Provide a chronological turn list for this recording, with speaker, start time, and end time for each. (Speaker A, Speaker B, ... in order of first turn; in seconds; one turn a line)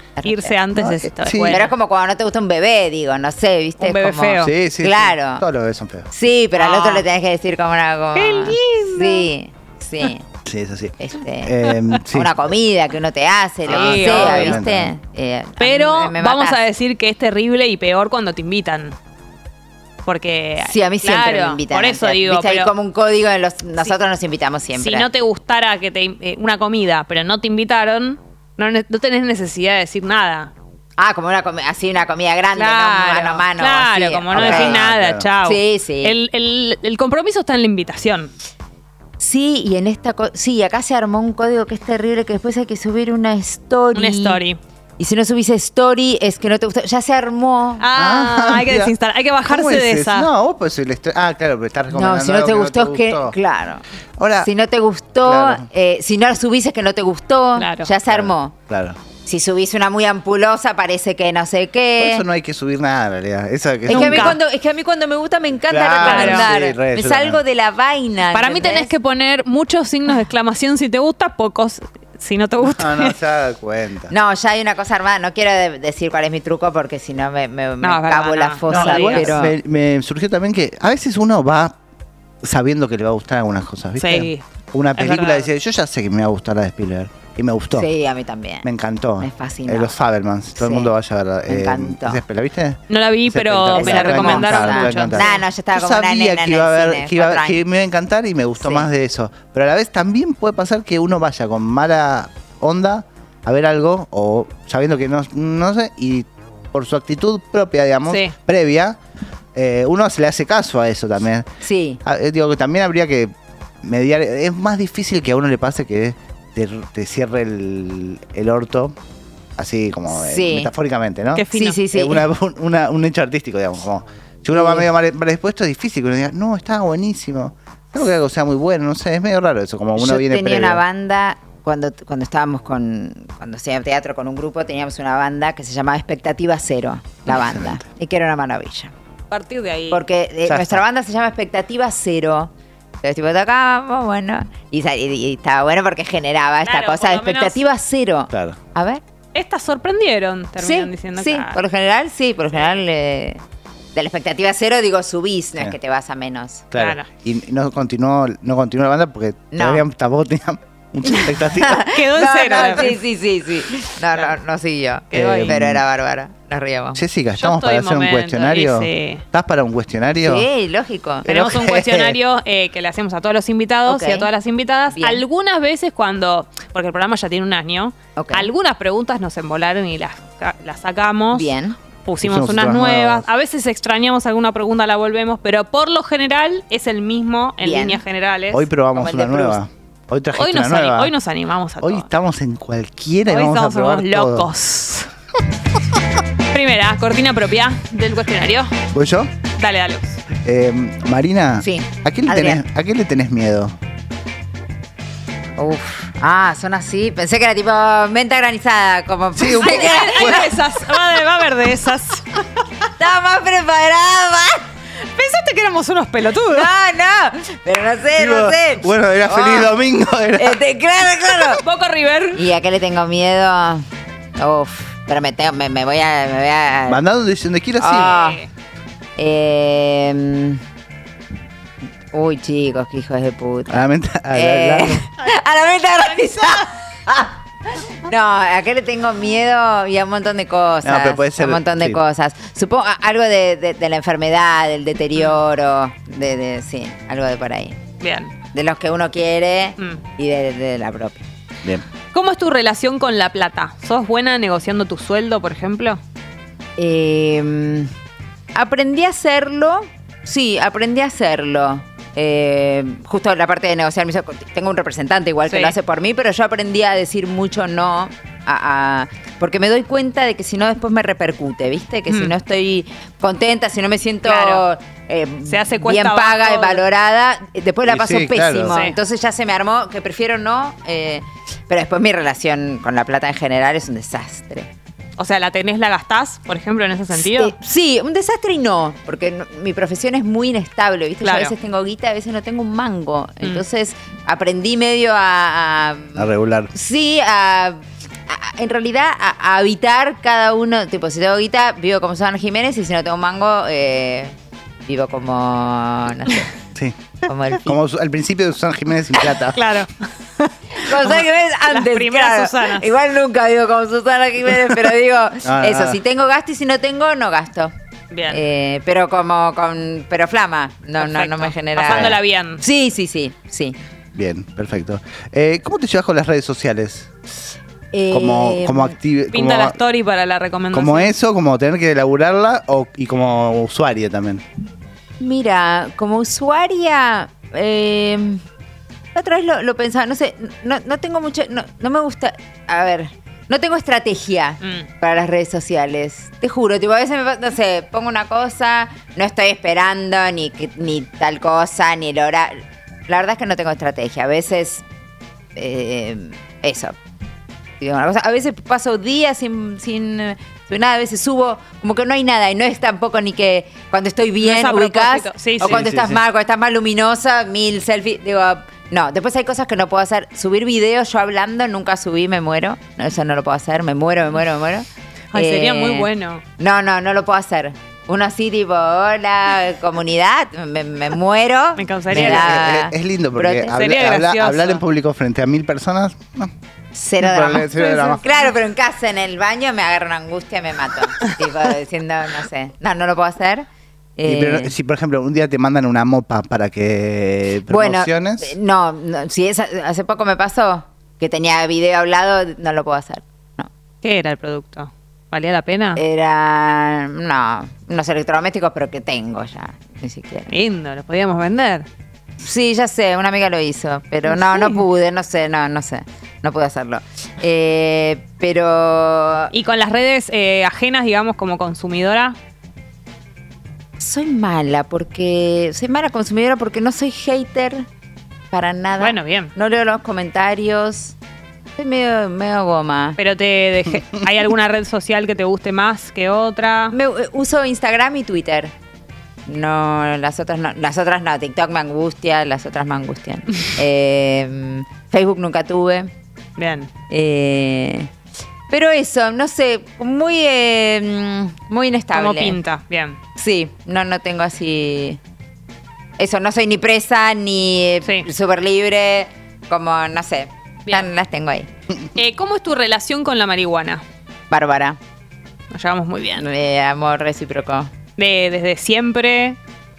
Speaker A: 0.2-0.6
Speaker B: 0.2-1.7
Speaker C: 0.8-1.6
Speaker A: 1.5-5.4
Speaker B: 3.8-4.5
Speaker C: 4.4-6.1
Speaker A: 6.1-10.2
Speaker B: 6.6-7.0
Speaker B: 8.1-9.3
Speaker C: 10.4-12.3
Speaker A: 11.0-16.6
Speaker C: 13.7-14.9
Speaker B: 13.7-14.6
Speaker B: 15.6-18.9
Speaker B: 20.0-22.7
Speaker A: 20.6-25.1
Speaker B: 24.7-30.5
Speaker A: 31.0-34.8
Speaker B: 32.5-38.3
Speaker C: 34.3-35.3
Speaker A: 35.4-36.1
Speaker A: 39.2-44.4
Speaker B: 43.9-44.6
Speaker A: 45.0-47.8
Speaker B: 47.8-50.3
Speaker C: 47.9-48.9
Speaker C: 49.5-53.4
Speaker A: 51.9-53.8
Speaker C: 54.2-54.5
Speaker A: 54.4-58.5
Speaker C: 55.2-55.6
Speaker B: 57.5-57.9
Speaker C: 58.1-59.0
Speaker A: 59.2-62.2
Speaker C: 62.0-64.4
Speaker A: 63.9-68.9
Speaker B: 63.9-64.4
Speaker C: 65.7-67.4
Speaker B: 66.0-66.5
Speaker B: 68.3-73.2
Speaker C: 72.6-74.1
Speaker A: 74.1-79.5
Speaker B: 77.8-79.4
Speaker C: 78.7-81.8
Speaker C: 82.4-87.9
Speaker B: 84.0-84.4
Speaker B: 85.0-85.5
Speaker A: 87.7-88.7
Speaker C: 88.6-109.0
Speaker A: 89.2-89.9
Speaker A: 90.6-90.9
Speaker A: 91.5-92.2
Speaker B: 92.9-95.3
Speaker A: 93.7-97.6
Speaker A: 98.6-98.9
Speaker B: 108.1-108.3
Speaker C: 109.5-111.5
Speaker A: 111.6-112.0
Speaker C: 112.0-119.0
Speaker C: 119.6-130.8
Speaker A: 120.1-120.7
Speaker B: 121.3-121.8
Speaker A: 121.5-122.2
Speaker A: 124.5-124.9
Speaker A: 130.0-138.9
Speaker C: 137.3-137.8
Speaker B: 139.3-140.0
Speaker A: 139.9-142.5
Speaker C: 140.5-140.8
Speaker A: 143.0-149.0
Speaker B: 146.6-147.6
Speaker C: 148.3-148.6
Speaker B: 149.3-151.6
Speaker A: 150.6-153.4
Speaker A: 153.9-156.6
Speaker C: 156.7-161.8
Speaker B: 156.7-157.1
Speaker A: 159.5-159.8
Speaker A: 161.6-167.0
Speaker B: 161.8-163.0
Speaker C: 162.5-162.8
Speaker B: 165.1-165.6
Speaker C: 165.1-165.8
Speaker C: 166.9-170.5
Speaker B: 167.4-169.2
Speaker A: 170.2-171.3
Speaker C: 171.2-172.2
Speaker B: 171.2-181.5
Speaker A: 173.9-174.3
Speaker A: 174.9-175.2
Speaker A: 178.2-178.5
Speaker A: 181.3-181.8
Speaker B: 182.1-188.7
Speaker C: 182.2-183.3
Speaker A: 187.6-188.0
Speaker C: 188.5-191.1
Speaker A: 188.9-189.6
Speaker B: 190.4-192.1
Speaker C: 191.8-194.5
Speaker B: 193.3-195.1
Speaker B: 196.5-198.7
Speaker C: 198.9-199.3
Speaker B: 199.6-200.2
Speaker C: 200.4-203.8
Speaker A: 201.6-202.6
Speaker A: 205.6-210.6
Speaker C: 209.3-210.5
Speaker B: 209.6-212.3
Speaker A: 213.0-214.7
Speaker B: 215.1-216.7
Speaker A: 216.5-219.8
Speaker C: 218.2-220.6
Speaker A: 220.3-221.6
Speaker B: 221.3-222.4
Speaker A: 222.3-227.0
Speaker C: 226.9-228.2
Speaker A: 227.8-228.4
Speaker B: 227.8-228.5
Speaker A: 229.2-230.6
Speaker A: 232.1-247.8
Speaker C: 233.7-235.0
Speaker C: 240.8-242.0
Speaker B: 248.0-248.3
Speaker A: 248.5-251.3
Speaker B: 252.1-256.0
Speaker A: 256.8-257.9
Speaker A: 258.5-284.7
Speaker B: 265.5-265.7
Speaker B: 272.1-272.3
Speaker B: 274.2-274.6
Speaker B: 275.5-276.8
Speaker C: 277.9-278.8
Speaker B: 278.7-278.9
Speaker B: 285.2-287.5
Speaker A: 287.1-304.3
Speaker B: 291.2-291.5
Speaker C: 296.1-296.7
Speaker A: 304.9-306.5
Speaker A: 307.2-307.8
Speaker C: 307.6-309.6
Speaker B: 309.4-312.9
Speaker A: 310.7-317.7
Speaker C: 315.4-316.0
Speaker B: 318.1-318.4
Speaker A: 318.3-323.8
Speaker B: 321.0-322.6
Speaker C: 321.8-322.2
Speaker C: 324.1-327.1
Speaker A: 327.9-328.9
Speaker C: 328.1-329.8
Speaker B: 329.3-331.1
Speaker C: 330.7-334.4
Speaker A: 335.2-338.4
Speaker A: 339.1-354.8
Speaker B: 344.6-344.9
Speaker A: 355.6-356.9
Speaker A: 357.8-376.1
Speaker B: 364.4-365.9
Speaker C: 365.6-366.2
Speaker B: 375.3-376.4
Speaker A: 376.6-383.8
Speaker B: 381.8-382.6
Speaker C: 382.1-386.5
Speaker B: 383.7-384.8
Speaker A: 386.9-394.7
Speaker C: 387.2-388.2
Speaker C: 394.2-398.5
Speaker A: 397.7-403.7
Speaker B: 404.0-406.0
Speaker A: 405.9-410.5
Speaker B: 410.5-411.9
Speaker A: 412.4-419.5
Speaker B: 414.3-414.8
Speaker B: 419.5-422.4
Speaker A: 424.0-427.9
Speaker A: 428.5-431.1
Speaker B: 429.0-429.5
Speaker A: 431.8-433.2
Speaker B: 433.2-436.9
Speaker A: 436.9-438.7
Speaker A: 439.4-446.1
Speaker B: 446.6-446.9
Speaker A: 447.1-448.1
Speaker A: 448.7-452.6
Speaker B: 452.1-453.2
Speaker A: 453.4-455.2
Speaker A: 456.2-461.7
Speaker B: 462.1-464.0
Speaker A: 464.5-465.0
Speaker B: 465.7-466.4
Speaker A: 466.4-467.9
Speaker B: 468.2-469.6